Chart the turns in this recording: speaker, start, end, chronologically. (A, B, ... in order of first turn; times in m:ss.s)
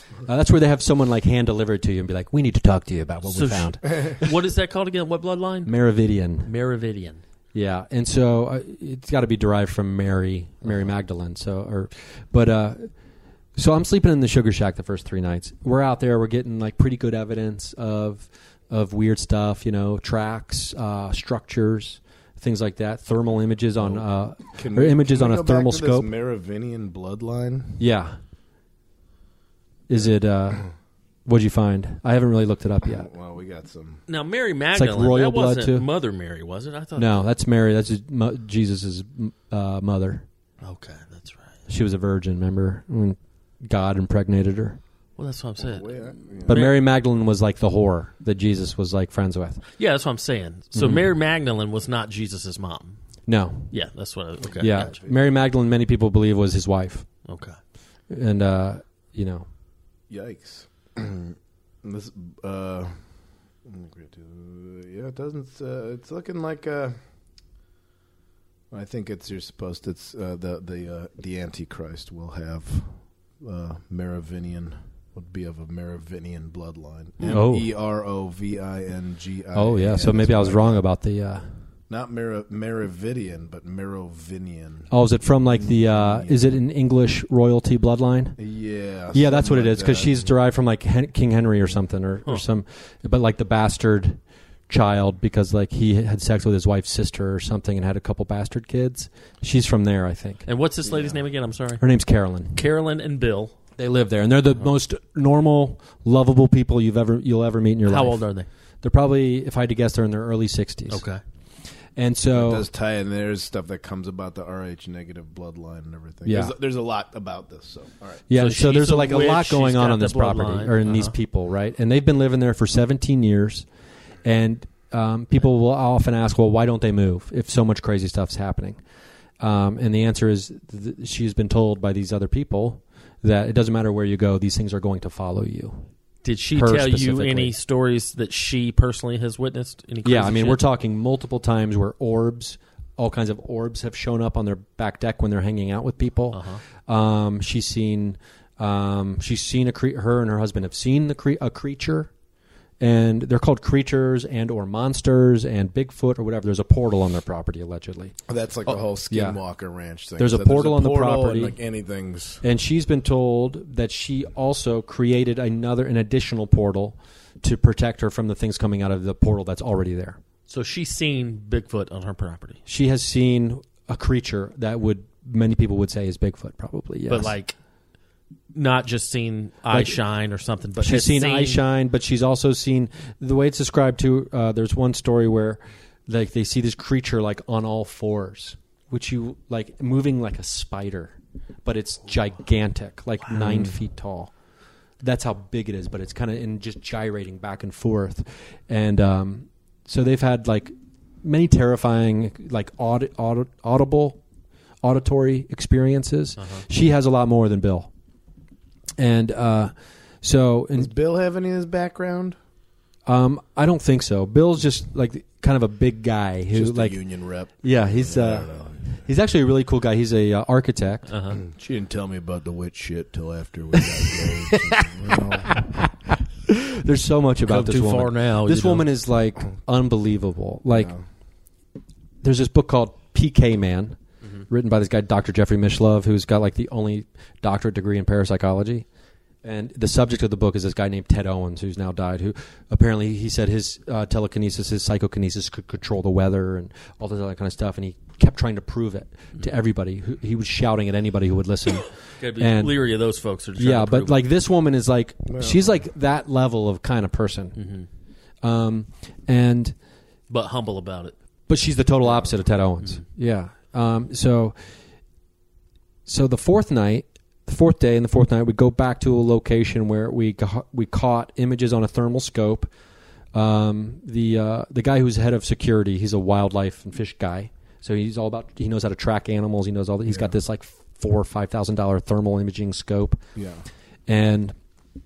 0:00.2-0:04.3 A
0:03.3-0:05.7 B
0:05.7-0:06.5 A
0:06.4-0:07.2 B
0:07.5-0:12.9 A
0:13.6-0:26.1 A
0:23.8-0:27.8 C
0:27.8-0:28.2 A
0:29.9-0:30.6 A
0:31.3-0:33.1 A
0:33.0-0:34.0 C
0:34.1-0:37.3 B
0:34.8-0:35.9 A
0:37.0-0:40.2 A
0:40.6-0:41.6 B
0:41.7-0:44.8 A
0:45.2-0:45.9 B
0:45.6-0:46.6 C
0:46.4-0:49.6 A
0:46.5-0:46.8 B
0:49.8-0:53.0 B
0:50.8-0:51.1 A
0:53.3-0:53.7 A
0:53.7-0:54.9 B
0:54.4-0:55.2 C
0:54.6-0:57.1 A
0:57.3-0:57.6 B
0:58.1-0:59.5 A
1:00.1-1:02.9 C
1:03.6-1:07.0 C
1:08.7-1:20.8 C
1:17.3-1:17.7 A
1:19.5-1:21.5 A
1:21.9-1:24.9 C
1:24.9-1:28.4 A
1:25.6-1:26.5 C
1:28.4-1:30.3 C
1:29.1-1:40.5 A
1:40.5-1:41.8 B
1:41.8-1:42.6 A
1:42.5-1:43.6 B
1:43.8-1:48.2 A
1:47.8-1:48.5 B
1:48.8-1:51.0 A
1:50.9-1:51.2 B
1:52.0-1:52.7 A
1:52.3-1:58.2 C
1:56.2-1:56.6 A
1:58.3-2:03.7 A
1:58.4-2:01.1 B
2:04.2-2:08.8 A
2:09.4-2:15.8 A
2:16.2-2:20.6 B
2:16.6-2:17.5 A
2:20.0-2:32.1 A
2:26.3-2:26.6 B
2:32.8-2:38.2 A
2:38.3-2:42.4 C
2:38.7-2:39.4 A
2:40.2-2:41.6 A
2:42.4-2:50.2 A
2:50.5-2:52.6 B
2:52.7-2:57.4 A
2:57.1-2:57.6 B
2:58.5-3:01.6 B
2:59.7-3:00.0 A
3:00.8-3:14.3 A
3:13.3-3:13.8 C
3:15.0-3:24.2 A
3:24.8-3:27.9 A
3:26.4-3:26.6 B
3:29.0-3:30.9 A
3:30.8-3:32.4 C
3:33.1-3:37.0 A
3:36.5-3:39.1 C
3:37.6-3:38.5 A
3:39.0-3:41.1 A
3:41.1-3:41.4 B
3:41.4-3:45.7 C
3:44.5-3:51.0 A
3:47.4-3:48.9 B
3:50.7-3:51.0 C
3:52.2-3:58.9 A
3:59.4-4:12.8 A
4:12.2-4:14.2 B
4:13.6-4:17.6 A
4:15.3-4:15.8 C
4:17.6-4:17.9 B
4:18.4-4:19.8 A
4:20.3-4:21.2 B
4:21.5-4:24.6 A
4:26.1-4:32.7 A
4:33.3-4:43.2 A
4:40.1-4:40.3 C
4:43.4-4:43.6 C
4:44.1-4:44.6 A